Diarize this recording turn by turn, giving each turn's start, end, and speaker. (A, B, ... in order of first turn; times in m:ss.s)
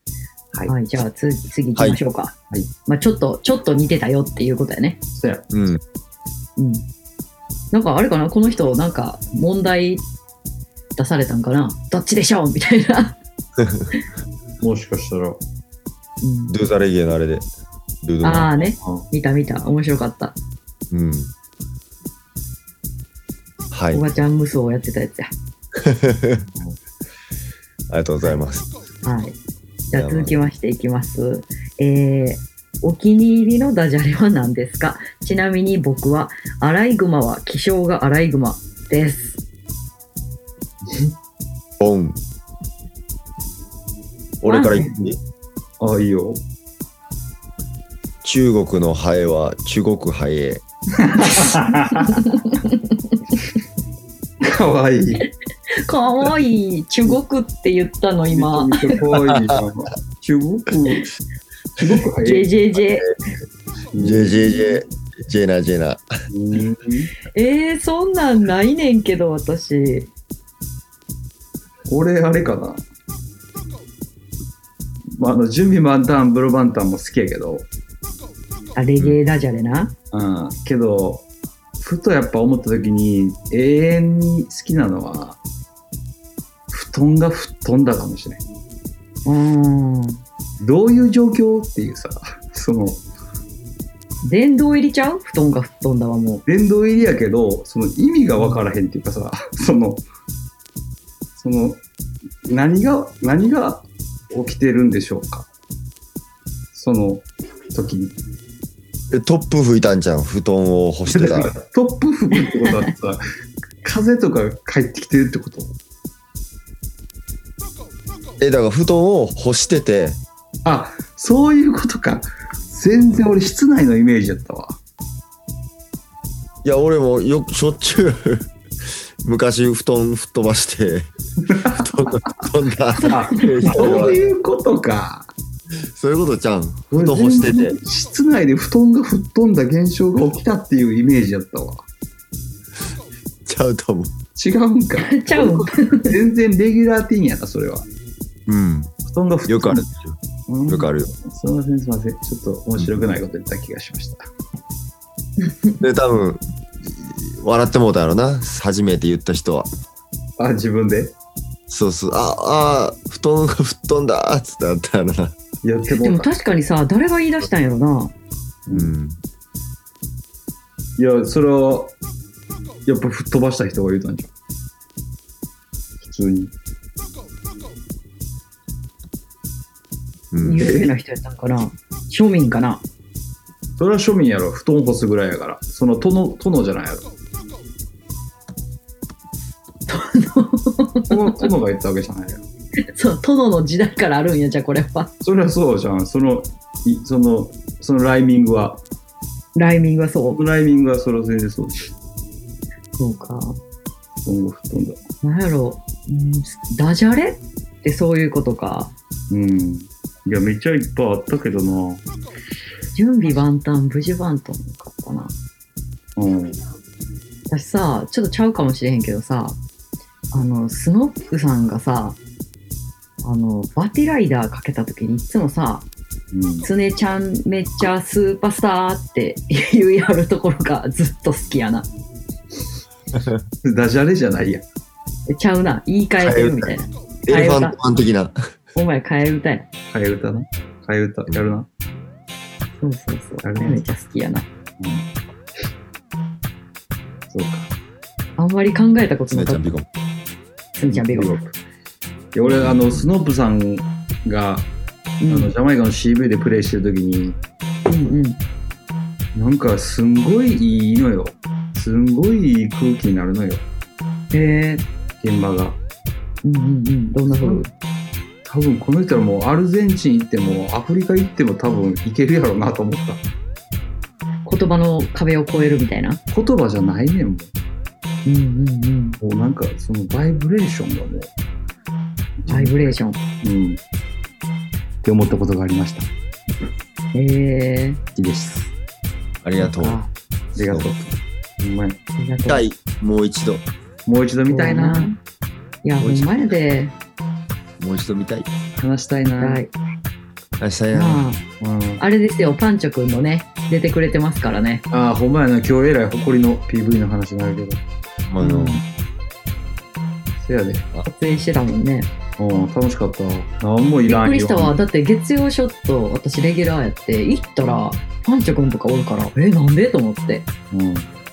0:00.7-0:02.3 A
0:02.9-0:05.0 A
0:05.2-0:05.5 B
0:05.5-0:05.8 C
0:06.6-0:06.8 A
0:07.7-0:10.0 A
0:11.0-0:13.2 A
0:13.6-0:13.9 C
0:14.6-0:15.4 B
0:16.2-0:16.5 A
0:16.5-0:17.5 C
0:18.0-0:18.5 C
0:18.2-0:20.4 A
0:18.8-0:19.1 B
0:20.9-0:21.3 C
0:23.7-0:24.0 C
0:23.9-0:25.3 A
0:25.8-0:26.5 C
0:27.9-0:28.7 C
0:29.0-0:29.4 A
0:29.9-0:39.4 A
0:29.9-0:30.4 C
0:40.9-0:41.1 B
0:41.8-0:42.2 C
0:44.4-0:45.2 C
0:44.5-0:44.8 A
0:45.8-0:46.4 B
0:48.2-0:50.6 C
0:51.0-0:52.2 B
0:52.1-0:53.2 A
0:54.4-0:55.3 B
0:55.8-0:59.0 A
0:58.3-1:01.1 B
1:01.8-1:02.5 B
1:02.2-1:03.1 A
1:03.9-1:04.5 B
1:04.0-1:06.1 C
1:06.3-1:07.1 B
1:07.3-1:10.1 A
1:11.9-1:12.8 B
1:15.2-1:17.7 B
1:18.8-1:19.9 A
1:20.1-1:21.3 B
1:21.8-1:25.4 B
1:26.7-1:28.4 B
1:29.2-1:30.2 A
1:30.6-1:33.0 B
1:34.2-1:36.4 A
1:36.5-1:40.0 B
1:41.4-1:41.8 B
1:42.5-1:45.5 B
1:46.7-1:48.2 B
1:49.1-1:51.5 C
1:51.1-1:53.2 B
1:53.8-1:55.8 B
1:58.4-2:00.2 C
2:00.6-2:04.8 B
2:06.6-2:08.5 C
2:09.2-2:11.1 C
2:11.4-2:11.9 B
2:11.7-2:14.2 C
2:13.0-2:14.0 A
2:13.1-2:15.3 B
2:15.9-2:17.8 C
2:16.9-2:21.9 B
2:23.5-2:24.2 C
2:24.4-2:27.9 B
2:25.0-2:26.2 A
2:28.5-2:28.9 C
2:29.0-2:29.9 B
2:29.5-2:30.2 C
2:30.5-2:34.3 B
2:30.7-2:31.1 C
2:35.4-2:35.8 A
2:35.8-2:39.7 C
2:40.4-2:41.2 B
2:41.7-2:45.4 C
2:45.6-2:46.3 B
2:46.0-2:48.1 A
2:48.7-2:48.9 B
2:48.7-2:49.2 C
2:51.0-2:52.0 B
2:52.9-2:54.3 B
2:56.0-2:56.5 B
3:00.3-3:00.6 C
3:00.4-3:02.8 A
3:00.6-3:00.9 B
3:03.8-3:07.1 B
3:09.9-3:11.4 A
3:11.1-3:12.4 B
3:12.9-3:15.1 A
3:15.2-3:18.8 B
3:19.6-3:20.4 A
3:20.3-3:21.9 B
3:23.0-3:23.6 A
3:24.2-3:25.0 B
3:25.2-3:28.9 A
3:29.3-3:32.0 B
3:32.9-3:35.3 A
3:36.2-3:36.6 B
3:37.5-3:39.6 A
3:40.3-3:42.2 A
3:43.2-3:45.9 A
3:46.3-3:46.7 B
3:46.6-3:51.9 A
3:53.1-3:53.4 C
3:53.6-3:54.6 B
3:55.3-3:57.8 A
3:56.2-3:56.7 C
3:57.3-3:58.4 C
3:58.8-3:59.7 A
3:59.9-4:01.7 B
4:02.8-4:04.5 A
4:03.4-4:03.8 B
4:04.8-4:05.1 B
4:07.3-4:07.7 B
4:08.4-4:09.7 A
4:09.3-4:09.9 C
4:10.8-4:11.5 A
4:10.9-4:11.5 B
4:12.3-4:14.7 B
4:12.4-4:13.1 C
4:15.2-4:15.5 A
4:15.3-4:17.4 B
4:17.9-4:18.4 A
4:19.4-4:23.6 B
4:24.3-4:24.9 A
4:25.2-4:25.8 B
4:26.4-4:27.7 A
4:27.3-4:27.6 B
4:28.4-4:33.2 B
4:34.4-4:36.2 A
4:36.3-4:37.5 B
4:38.2-4:39.2 A
4:39.2-4:41.3 B
4:42.4-4:43.8 B
4:42.5-4:43.2 A
4:45.0-4:46.1 B
4:47.1-4:48.0 A
4:48.2-4:48.7 B
4:49.4-4:50.0 C
4:49.6-4:50.1 A
4:50.6-4:52.0 B
4:50.7-4:50.9 C
4:52.2-4:52.6 A
4:52.4-4:53.7 C
4:54.1-4:55.2 B
4:54.5-4:55.1 A
4:55.8-4:57.0 A
4:57.8-4:58.5 C
4:58.8-4:59.6 B
4:59.3-4:59.7 A
5:00.6-5:01.2 C
5:00.9-5:01.4 A
5:01.6-5:02.0 B
5:02.0-5:04.8 A
5:04.9-5:07.8 B
5:08.3-5:08.8 C
5:08.4-5:08.8 A
5:10.4-5:10.9 B
5:11.0-5:12.1 A
5:12.4-5:14.8 B
5:14.1-5:20.5 A
5:20.7-5:21.1 B